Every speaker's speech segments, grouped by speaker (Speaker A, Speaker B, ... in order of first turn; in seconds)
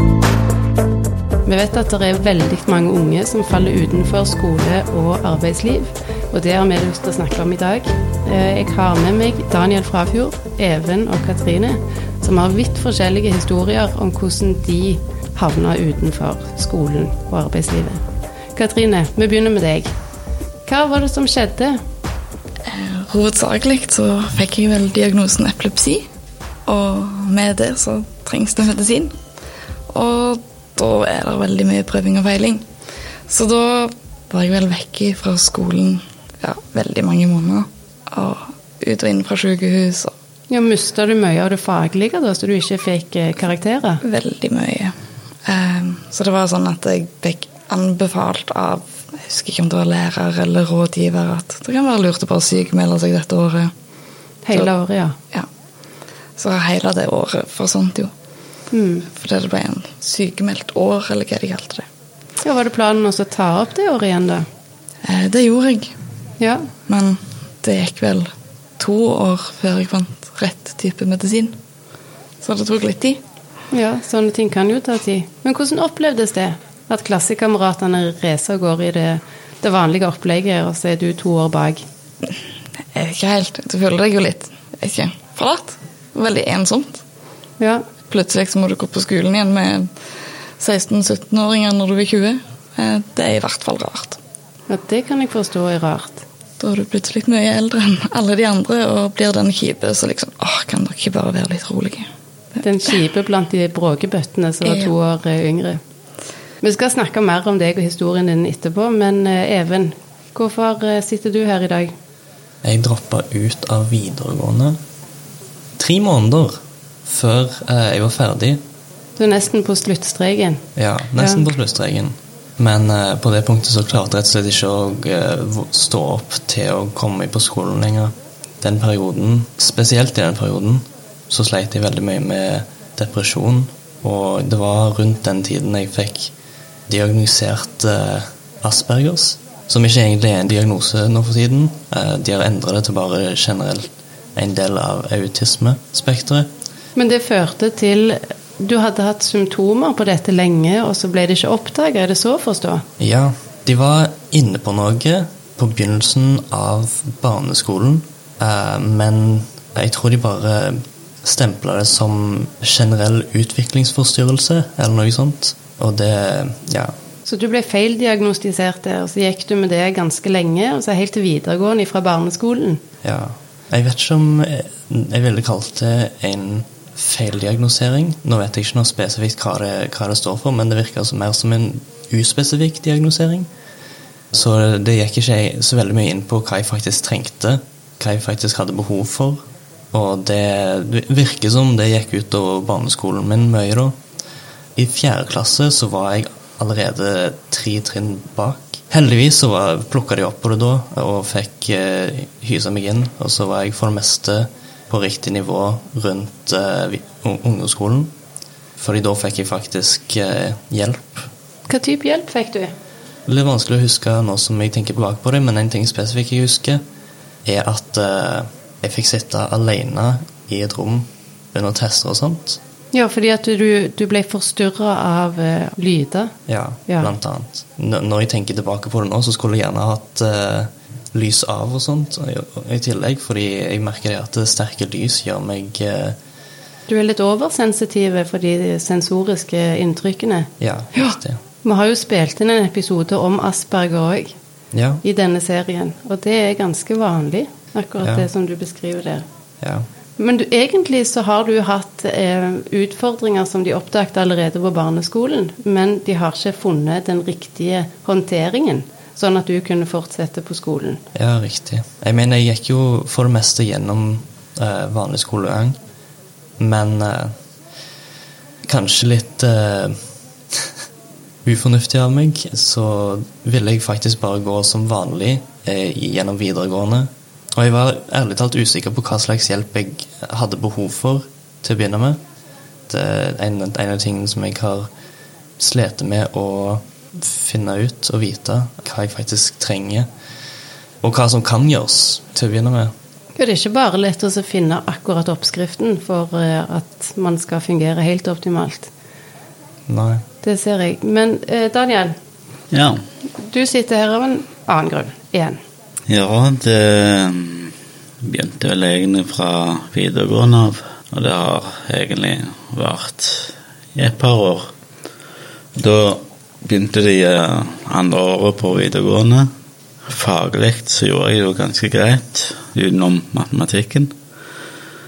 Speaker A: 1.4-18.0, 18.6-19.9, 20.7-21.8, 40.5-44.0, 54.5-55.1, 58.7-59.1, 62.4-64.5, 66.4-66.7, 73.7-81.8, 87.6-87.9, 94.7-96.2, 102.6-105.8, 106.6-111.9, 119.2-120.6, 121.2-121.4, 147.0-152.8, 167.3-172.8, 211.7-212.7, 222.9-226.3, 236.9-244.3, 245.0-249.2, 250.2-261.0, 293.4-298.9, 300.4-302.1, 303.4-305.6
Speaker B: 22.7-26.1, 26.7-29.2, 29.9-32.7, 33.3-40.1, 44.0-53.7, 56.4-58.1, 59.1-61.9, 65.0-65.9, 66.9-71.6, 72.4-73.2, 82.9-87.0, 88.1-89.9, 90.6-94.2, 96.6-102.1
Speaker C: 112.6-114.8, 115.8-118.6, 120.8-136.3, 136.9-146.5, 153.0-166.9, 173.0-183.5, 184.3-189.4, 189.9-194.0, 194.8-208.1, 208.8-211.3, 213.3-216.8, 217.4-222.6, 226.5-236.2, 240.6-241.4, 244.7-245.0, 248.0-248.3, 249.6-249.9, 261.1-265.8, 266.6-267.3, 268.6-270.0, 271.4-282.2, 282.9-284.9, 285.6-290.1, 291.0-292.9, 299.9-300.2
Speaker D: 302.7-303.0, 306.1-314.7, 315.8-319.5, 320.1-324.1